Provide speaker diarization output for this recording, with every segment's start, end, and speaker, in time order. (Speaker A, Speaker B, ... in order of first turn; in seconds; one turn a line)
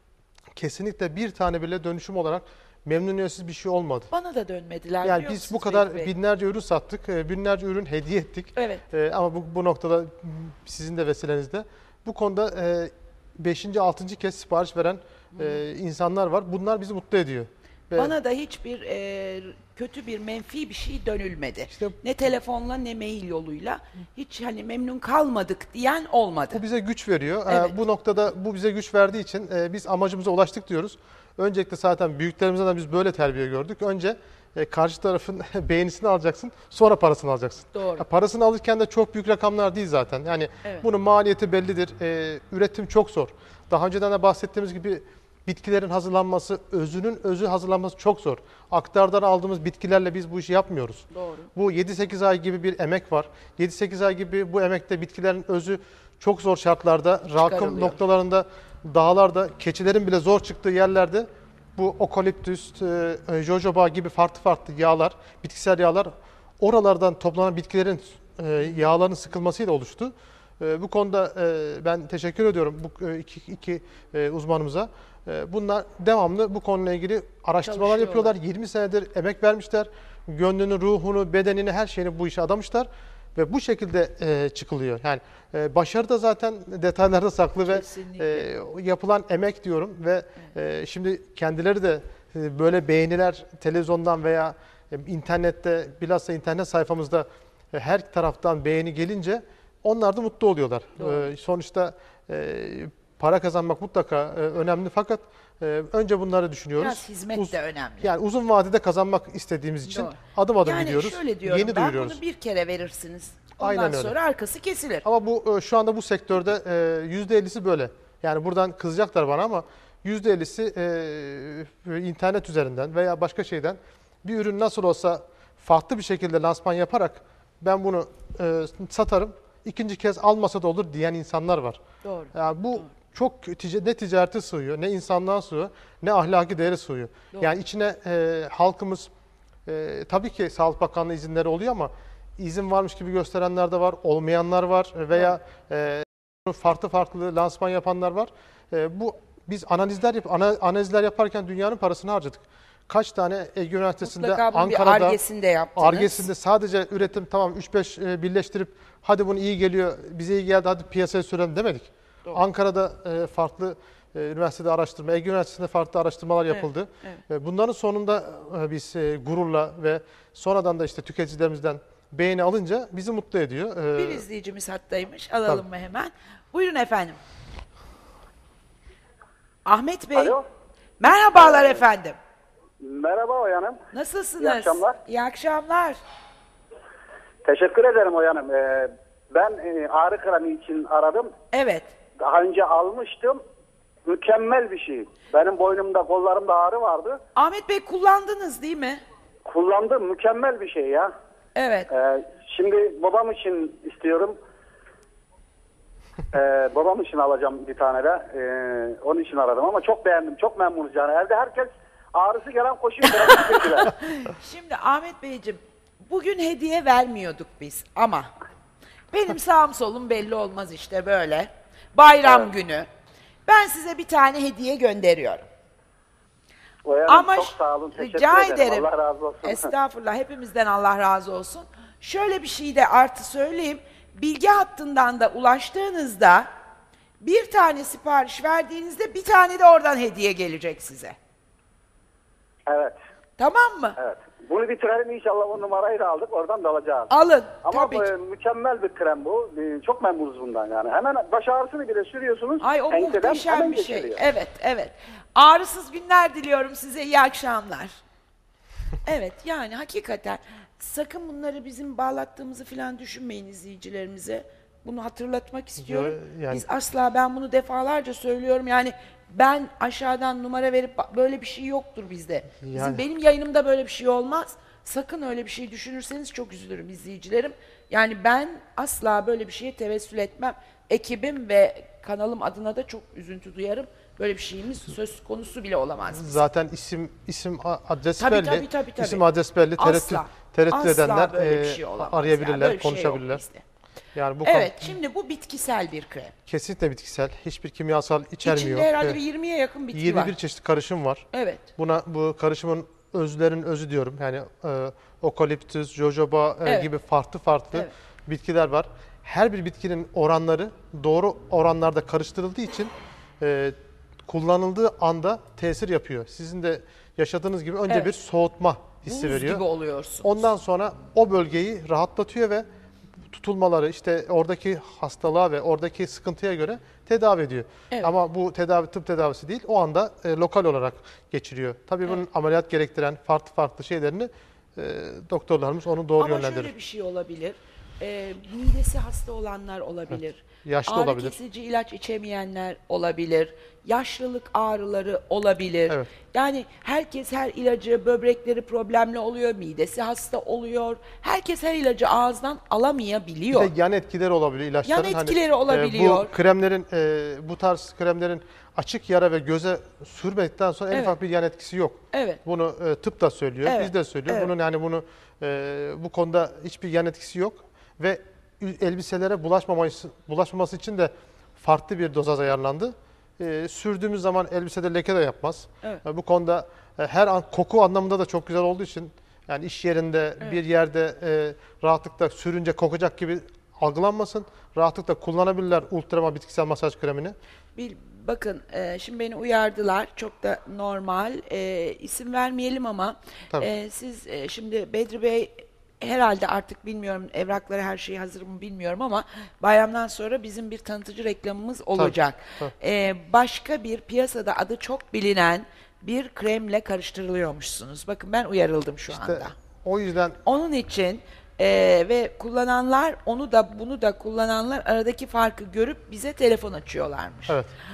Speaker A: 0.5-4.1
Speaker B: 4.1-6.1
Speaker A: 5.0-18.1
Speaker B: 8.6-8.8
Speaker B: 15.3-15.6
Speaker B: 17.9-26.6
Speaker A: 21.7-22.0
Speaker A: 26.5-112.2
Speaker B: 27.5-27.7
Speaker B: 37.7-38.0
Speaker B: 51.1-51.5
Speaker B: 57.4-58.0
Speaker B: 77.6-78.3
Speaker B: 87.6-88.5
Speaker B: 101.0-101.3
Speaker B: 106.8-108.1
Speaker B: 109.8-115.0
Speaker A: 113.6-114.2
Speaker A: 115.0-131.8
Speaker B: 132.0-132.9
Speaker A: 132.3-139.1
Speaker A: 139.7-155.2
Speaker B: 154.0-156.3
Speaker A: 155.8-174.2
Speaker B: 166.5-167.2
Speaker B: 173.9-177.2
Speaker B: 179.7-180.4
Speaker C: 180.1-180.4
Speaker B: 181.0-182.2
Speaker C: 181.3-181.8
Speaker C: 182.8-183.8
Speaker B: 183.9-186.0
Speaker C: 184.4-184.9
Speaker C: 187.4-191.3
Speaker B: 191.5-191.9
Speaker C: 192.2-193.4
Speaker C: 194.1-197.2
Speaker B: 197.3-199.0
Speaker C: 199.4-201.1
Speaker B: 201.6-201.9
Speaker C: 201.9-204.4
Speaker C: 206.3-213.9
Speaker B: 213.0-218.3
Speaker B: 219.1-222.9
Speaker C: 222.2-222.5
Speaker B: 223.4-225.5
Speaker C: 226.8-229.7
Speaker B: 227.1-228.9
Speaker B: 229.4-236.5
Speaker B: 237.2-241.2
Speaker C: 242.7-243.0
Speaker B: 243.4-244.0
Speaker C: 244.0-247.1
Speaker B: 247.1-248.1
Speaker C: 247.6-254.2
Speaker B: 252.6-258.0
Speaker B: 259.0-286.4
Speaker A: 265.8-266.6
Speaker A: 272.6-273.0
Speaker A: 286.1-293.4
Speaker B: 288.2-289.2
Speaker B: 289.8-293.6
Speaker A: 294.1-294.9
Speaker B: 294.4-296.3
Speaker A: 296.5-299.2
Speaker B: 298.4-300.3
Speaker A: 299.9-313.7
Speaker B: 301.3-301.7
Speaker B: 306.6-306.9
Speaker A: 314.3-319.6
Speaker B: 319.1-320.3
Speaker A: 320.2-322.6
Speaker A: 323.3-336.7
Speaker B: 336.2-353.7
Speaker A: 340.6-341.4
Speaker A: 353.5-387.4
Speaker B: 354.8-356.3
Speaker B: 360.9-361.1
Speaker B: 362.1-362.4
Speaker B: 363.6-364.5
Speaker B: 387.7-409.5
Speaker A: 401.9-402.7
Speaker A: 409.1-410.4
Speaker B: 410.4-417.6